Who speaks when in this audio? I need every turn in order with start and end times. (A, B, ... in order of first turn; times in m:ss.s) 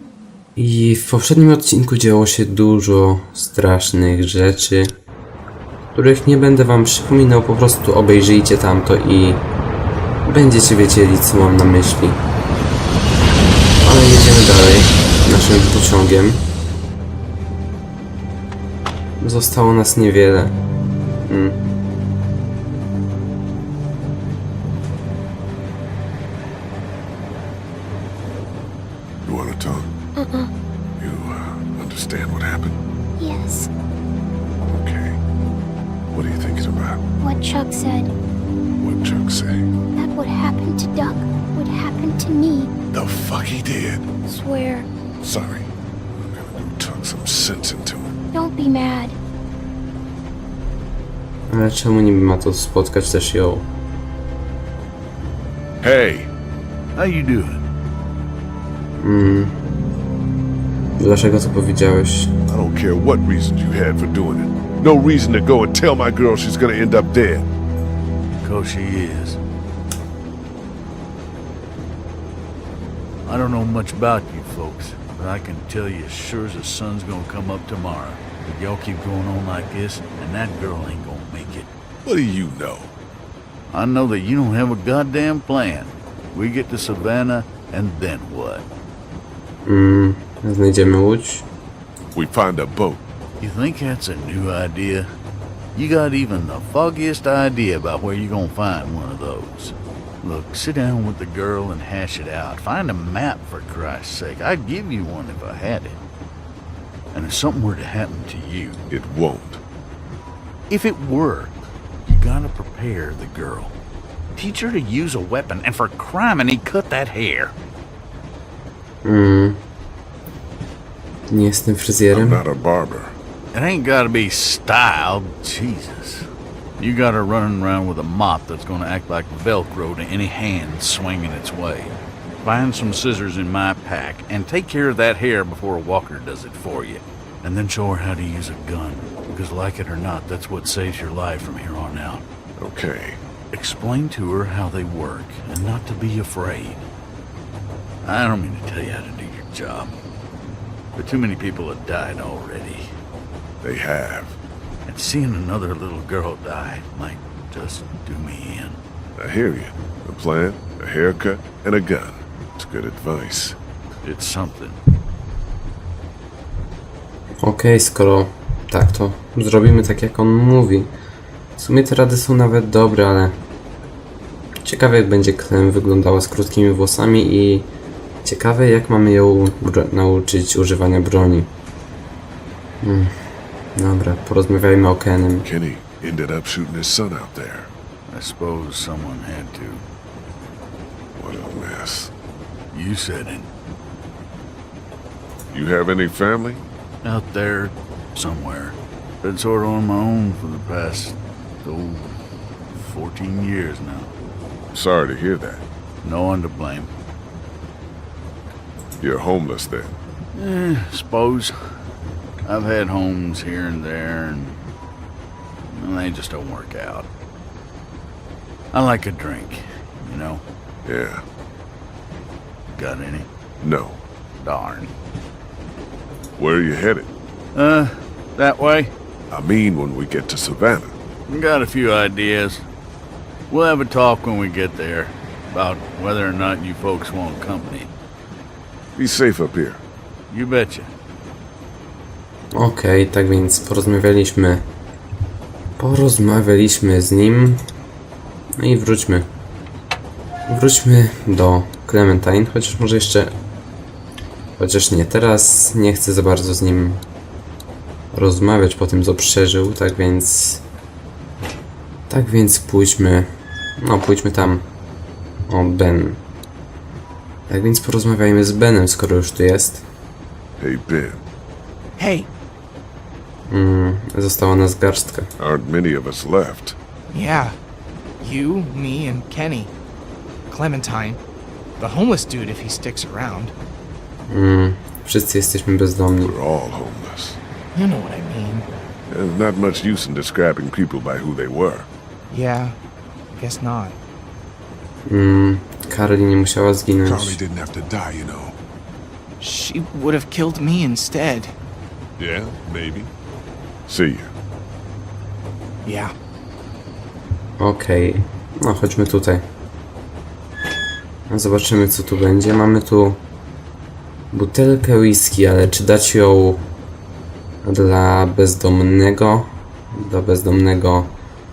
0:00.6-0:04.9 A
0:05.9-0:09.4 A
0:10.2-0:12.2 A
0:13.8-0:16.4 A
0:19.2-0:20.5 A
0:21.2-0:21.6 A
0:29.2-0:29.9 B
0:30.1-0:30.5 C
0:31.0-0:32.8 B
0:33.2-0:33.7 C
0:34.6-0:35.2 B
0:36.1-0:37.0 B
0:37.2-0:38.1 C
0:38.8-0:39.7 B
0:40.0-0:42.7 C
0:42.9-0:44.1 B
0:44.3-0:44.9 C
0:45.2-0:48.1 B
0:48.3-0:49.2 C
0:51.5-0:53.6 A
0:55.8-0:56.3 B
0:56.9-0:57.6 D
0:59.0-0:59.6 A
1:01.0-1:02.3 A
1:02.5-1:07.5 B
1:08.4-1:09.4 D
1:13.2-1:21.7 D
1:22.0-1:22.9 B
1:23.7-1:28.6 D
1:29.6-1:31.4 A
1:32.1-1:33.0 B
1:33.4-1:35.1 D
1:35.7-1:46.0 D
1:47.1-1:48.8 D
1:48.9-1:49.6 B
1:50.7-1:51.5 D
1:52.0-1:53.7 D
1:54.3-1:57.5 D
1:59.0-1:59.6 A
2:01.3-2:02.4 A
2:02.1-2:03.2 B
2:03.5-2:06.2 D
2:06.8-2:22.2 D
2:22.6-2:23.2 B
2:23.5-2:26.8 D
2:28.0-2:29.9 D
2:30.9-2:32.8 D
2:33.6-2:34.4 B
2:34.8-2:38.8 D
2:39.2-2:43.6 B
2:44.0-2:44.8 D
2:47.4-2:50.9 A
2:51.6-2:53.4 A
2:54.6-2:57.7 A
2:58.2-3:01.5 A
3:02.8-3:03.1 A
3:03.7-3:05.4 A
3:05.4-3:07.7 B
3:08.1-3:09.8 D
3:11.2-3:12.1 B
3:12.7-3:13.5 D
3:15.5-3:16.6 B
3:17.0-3:22.1 D
3:22.7-3:24.1 D
3:24.7-3:25.6 B
3:26.0-3:26.9 D
3:29.0-3:29.9 B
3:30.3-3:31.5 D
3:32.4-3:34.6 D
3:35.7-3:37.1 D
3:38.7-3:40.4 D
3:40.8-3:41.2 B
3:42.7-3:43.3 D
3:43.6-3:44.0 B
3:44.4-3:44.9 D
3:46.4-3:47.1 B
3:47.5-3:48.9 D
3:49.3-3:50.9 B
3:51.3-3:52.6 D
3:53.5-3:57.9 D
3:58.9-3:59.8 B
4:00.3-4:00.9 D
4:02.5-4:04.6 A
4:05.8-4:07.6 A
4:08.6-4:09.3 A
4:10.5-4:13.3 A
4:14.6-4:17.0 A
4:18.1-4:20.6 A
4:22.1-4:24.6 A
4:25.5-4:26.2 A
4:27.5-4:29.8 A
4:30.6-4:31.2 B
4:32.0-4:32.3 E
4:33.5-4:35.3 A
4:35.4-4:36.8 B
4:37.1-4:37.5 E
4:38.2-4:39.7 E
4:40.5-4:41.2 E
4:41.8-4:43.5 E
4:44.3-4:46.3 A
4:46.2-4:47.4 B
4:47.7-4:48.7 E
4:49.1-4:51.9 B
4:52.3-4:52.8 E
4:53.3-4:54.0 E
4:55.0-4:57.4 A
4:57.0-4:58.6 B
4:59.4-5:01.5 E
5:02.2-5:03.1 B
5:03.9-5:04.3 B
5:05.8-5:06.1 E
5:07.6-5:09.4 A
5:11.3-5:13.2 A
5:14.3-5:16.6 A
5:17.6-5:21.1 A